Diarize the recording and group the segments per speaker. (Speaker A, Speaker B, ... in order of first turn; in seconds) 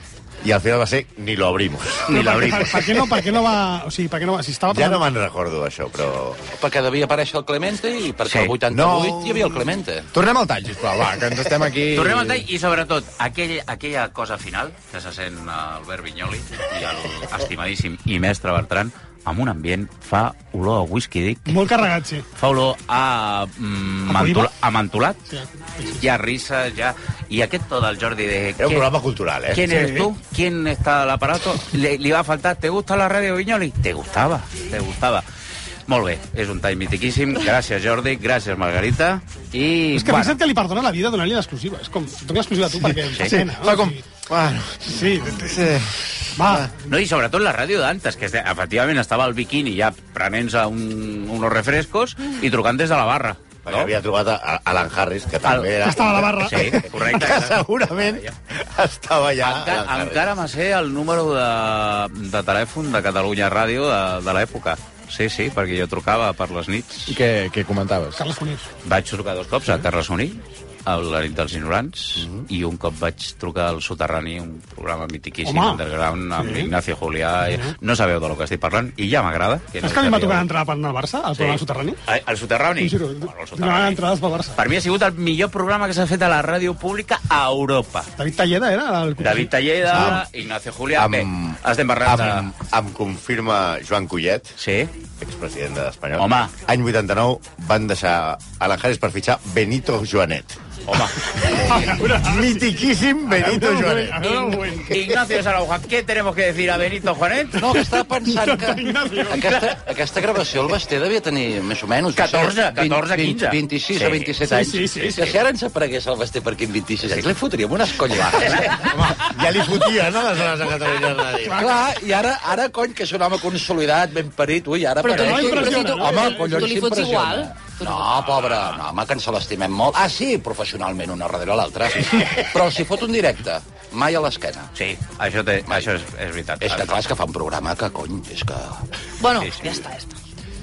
Speaker A: 0.4-2.5, 4.7-6.4, 8.7-9.7, 28.6-29.7, 53.6-60.2, 89.9-90.2, 90.9-94.6, 95.2-100.8, 101.5-104.3, 118.8-121.8
Speaker B: 2.1-5.0, 21.5-22.2, 24.1-24.5, 25.3-26.0, 29.6-30.1, 39.9-44.0, 44.9-45.7, 46.4-46.7, 55.8-57.2, 68.2-68.7, 75.4-75.8, 76.3-76.7, 77.4-77.7, 79.8-82.0, 82.8-84.6, 88.2-90.1, 101.5-102.7, 103.3-105.1, 108.3-109.4, 114.4-115.4, 125.1-126.4
Speaker C: 2.1-2.9, 8.2-8.5, 11.9-21.6, 22.4-25.2, 25.9-28.9, 29.5-35.2, 35.9-40.4, 43.1-43.4, 46.9-53.9, 55.4-58.3, 59.4-67.2, 68.8-80.5, 81.3-84.0, 84.5-88.1, 89.2-92.5, 94.6-94.9, 96.2-96.5, 100.9-101.1, 104.2-107.8, 112.1-114.3, 118.2-118.9, 128.1-128.8, 134.7-137.0, 139.3-139.8
Speaker D: 6.5-10.1, 107.6-118.9, 121.5-134.7, 136.6-138.8
Speaker E: 10.1-12.4, 43.1-46.7, 67.1-68.2
Speaker F: 125.0-128.1, 139.2-140.1